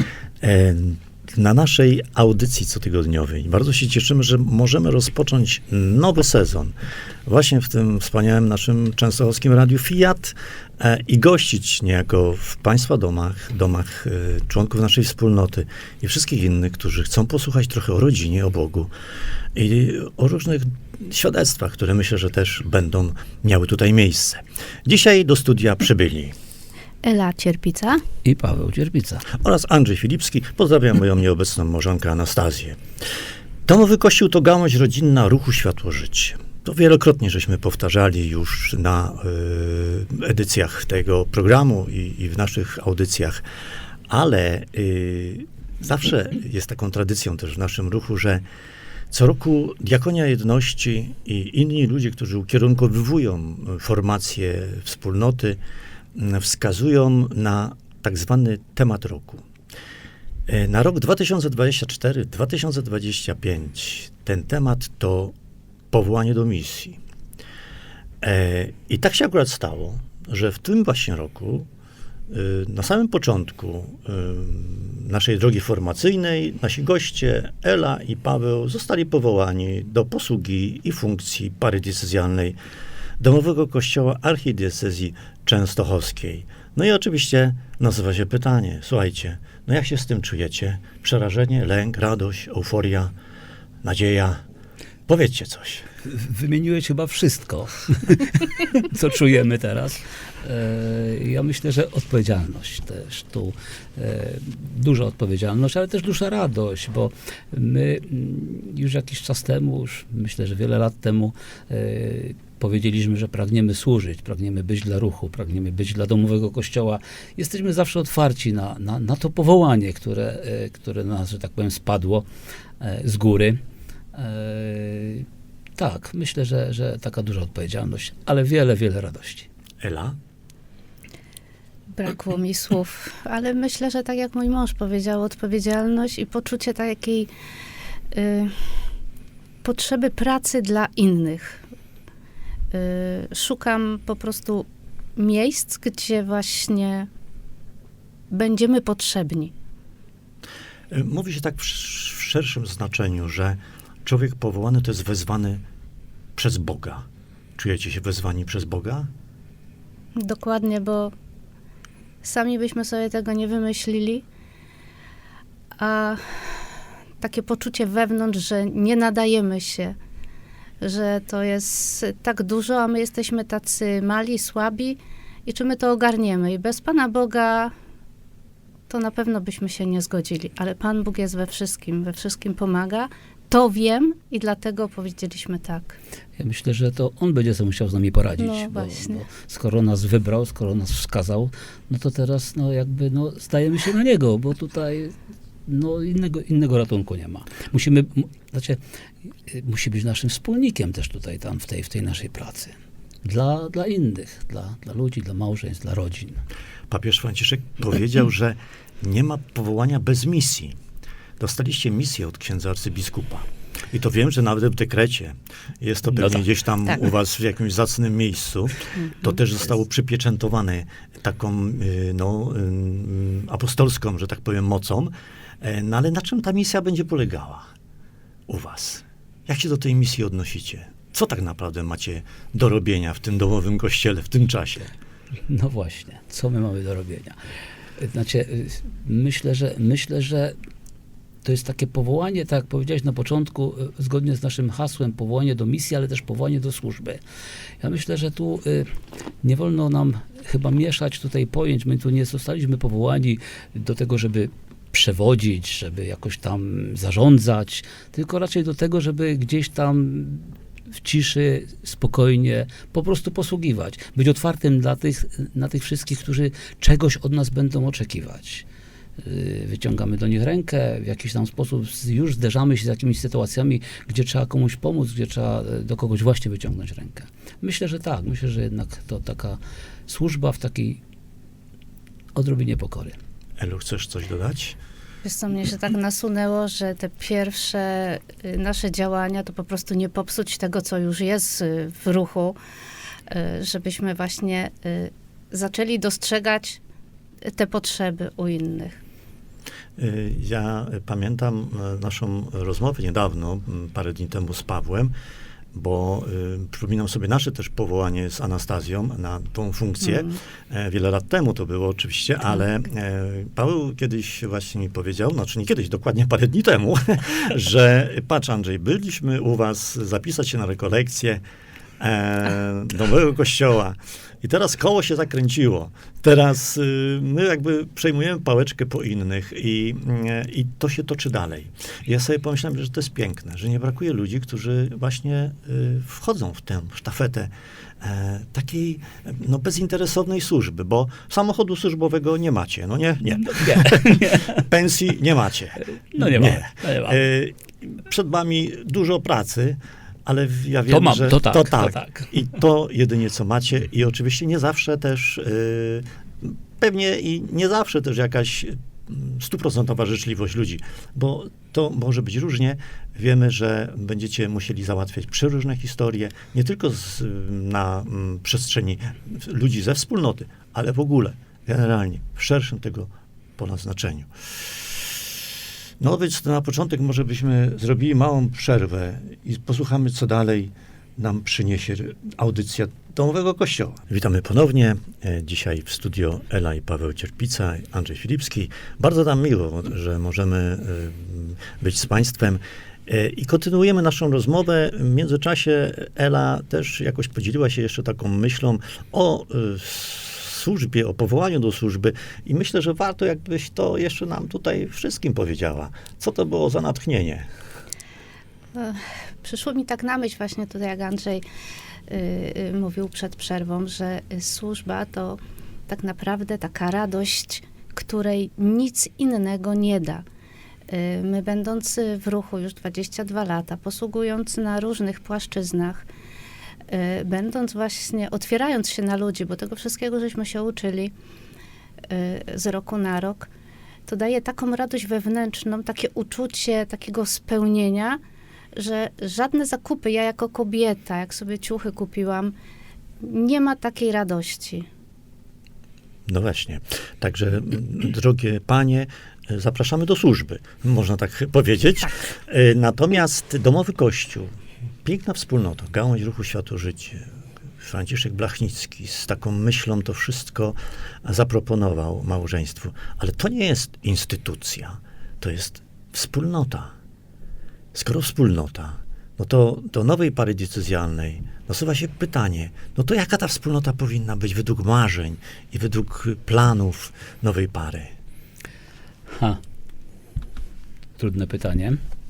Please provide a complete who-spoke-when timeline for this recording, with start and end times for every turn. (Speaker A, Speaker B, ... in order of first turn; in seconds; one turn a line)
Speaker A: 0.4-6.8
Speaker A: 7.3-18.9
Speaker A: 19.6-26.4
Speaker B: 27.0-28.0
Speaker C: 28.2-29.3
Speaker A: 29.3-32.8
Speaker A: 33.7-43.4
Speaker A: 44.1-48.5
Speaker A: 49.1-55.6
Speaker A: 56.1-59.4
Speaker A: 60.5-65.3
Speaker A: 65.9-67.0
Speaker A: 68.2-71.7
Speaker A: 72.3-82.6
Speaker A: 83.2-93.1
Speaker A: 93.8-94.4
Speaker A: 95.1-95.9
Speaker C: 96.0-122.3
Speaker C: 122.8-123.6
Speaker C: 124.1-125.3
Speaker C: 125.8-129.5
Speaker A: 129.8-130.2
Speaker B: 131.9-137.3
Speaker B: 138.1-138.7
Speaker B: 139.6-141.6
Speaker B: 142.7-147.1
Speaker B: 148.3-149.5
Speaker A: 150.9-155.6
Speaker A: 156.4-157.0
Speaker A: 157.6-159.1
Speaker B: 160.2-161.1
Speaker B: 162.2-164.2
Speaker B: 165.8-166.7
Speaker B: 167.2-170.0
Speaker B: 170.8-177.7
Speaker B: 178.9-186.0
Speaker C: 186.4-195.1
Speaker B: 188.4-189.2
Speaker C: 195.7-198.8
Speaker C: 199.5-206.4
Speaker A: 206.9-210.8
Speaker A: 211.4-227.7
Speaker C: 216.2-216.4
Speaker A: 228.5-234.9
Speaker C: 235.5-237.4
Speaker C: 238.0-240.6
Speaker C: 241.4-247.2
Speaker C: 247.8-248.9
Speaker C: 249.4-268.7
Speaker C: 269.2-281.0
Speaker C: 282.4-283.2
Speaker A: 283.6-284.8
Speaker B: 285.2-292.6
Speaker B: 293.3-296.8
Speaker B: 297.5-299.0
Speaker A: 300.0-305.1
Speaker A: 305.7-321.4
Speaker B: 310.1-310.4
Speaker A: 322.0-374.7
Speaker C: 343.3-344.7
Speaker C: 345.9-347.2
Speaker C: 350.9-352.4
Speaker A: 376.0-407.5
Speaker B: 408.8-411.4
Speaker B: 412.1-420.2
Speaker B: 420.9-426.1
Speaker B: 426.9-431.1
Speaker B: 432.1-433.5
Speaker B: 434.1-438.2
Speaker B: 438.8-442.6
Speaker B: 443.2-444.9
Speaker A: 446.3-454.5
Speaker A: 455.1-457.3
Speaker A: 457.8-466.9
Speaker A: 467.9-478.1
Speaker C: 479.3-479.6
Speaker C: 481.2-482.0